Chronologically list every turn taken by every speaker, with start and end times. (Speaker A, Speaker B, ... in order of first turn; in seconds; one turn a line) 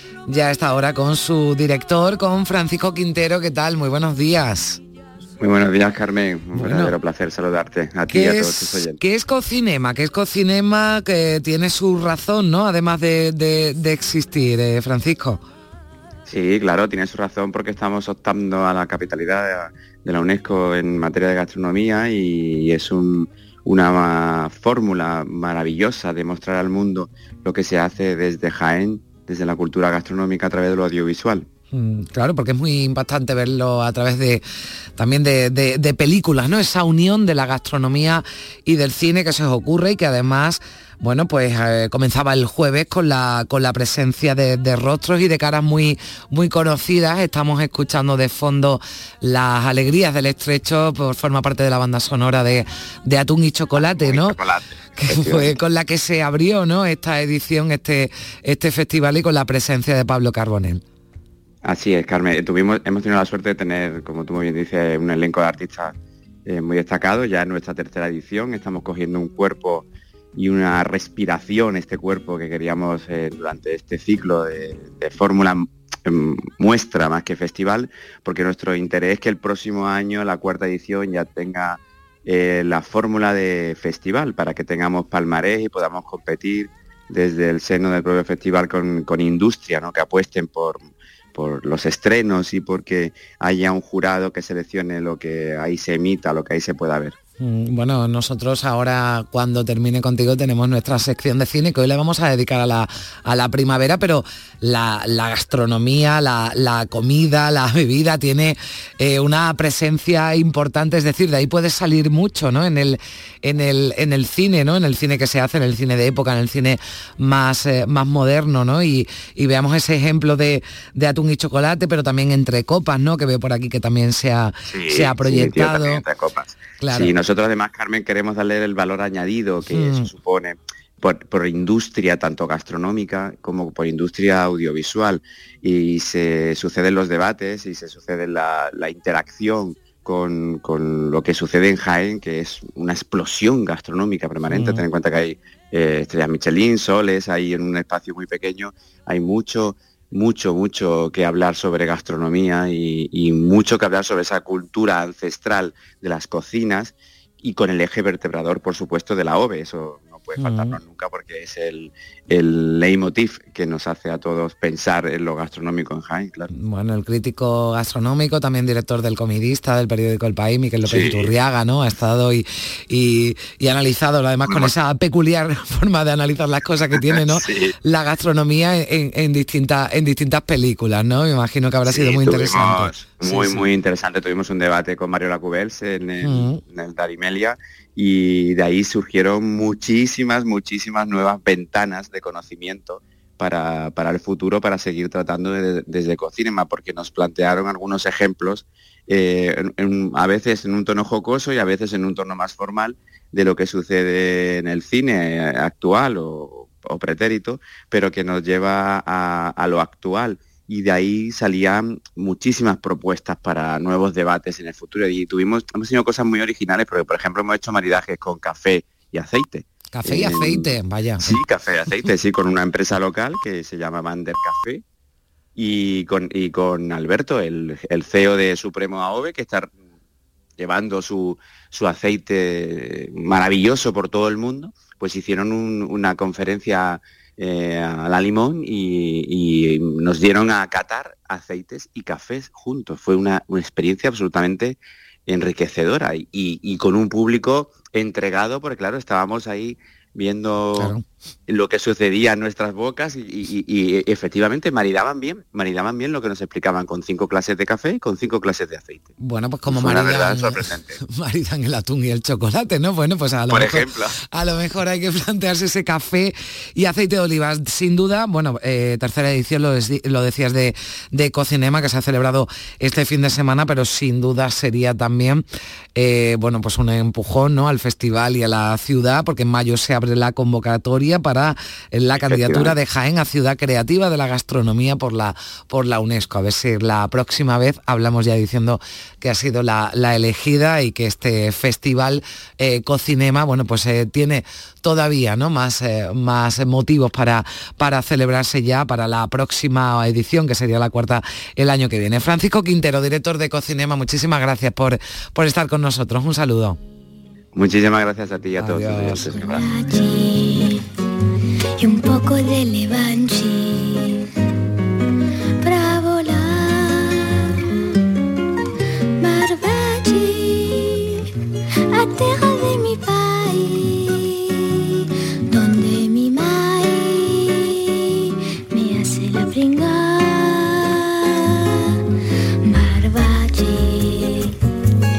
Speaker A: 0.3-4.8
Speaker B: 5.4-9.0
Speaker A: 6.5-6.9
Speaker A: 8.1-15.4
Speaker B: 16.2-31.5
Speaker A: 31.7-34.4
Speaker A: 35.0-54.4
Speaker B: 53.8-55.5
Speaker A: 55.0-60.8
Speaker B: 61.6-65.9
Speaker B: 66.5-90.8
Speaker B: 91.3-97.2
Speaker A: 97.4-126.0
Speaker B: 124.7-166.5
Speaker A: 126.8-127.1
Speaker A: 129.7-130.1
Speaker A: 144.5-144.8
Speaker A: 160.4-160.8
Speaker A: 166.5-183.7
Speaker B: 170.8-171.3
Speaker B: 177.1-177.7
Speaker B: 181.9-224.8
Speaker A: 186.2-186.6
Speaker A: 219.9-221.4
Speaker B: 225.6-229.7
Speaker B: 230.6-250.9
Speaker A: 250.8-251.0
Speaker B: 251.5-259.1
Speaker A: 259.2-275.4
Speaker B: 259.6-261.0
Speaker B: 263.5-264.1
Speaker A: 275.9-306.8
Speaker B: 282.2-282.7
Speaker B: 307.5-309.7
Speaker A: 308.6-309.6
Speaker C: 309.3-310.8
Speaker C: 311.8-314.2
Speaker C: 315.6-317.5
Speaker C: 319.2-321.1
Speaker C: 321.9-331.9
Speaker C: 332.6-334.5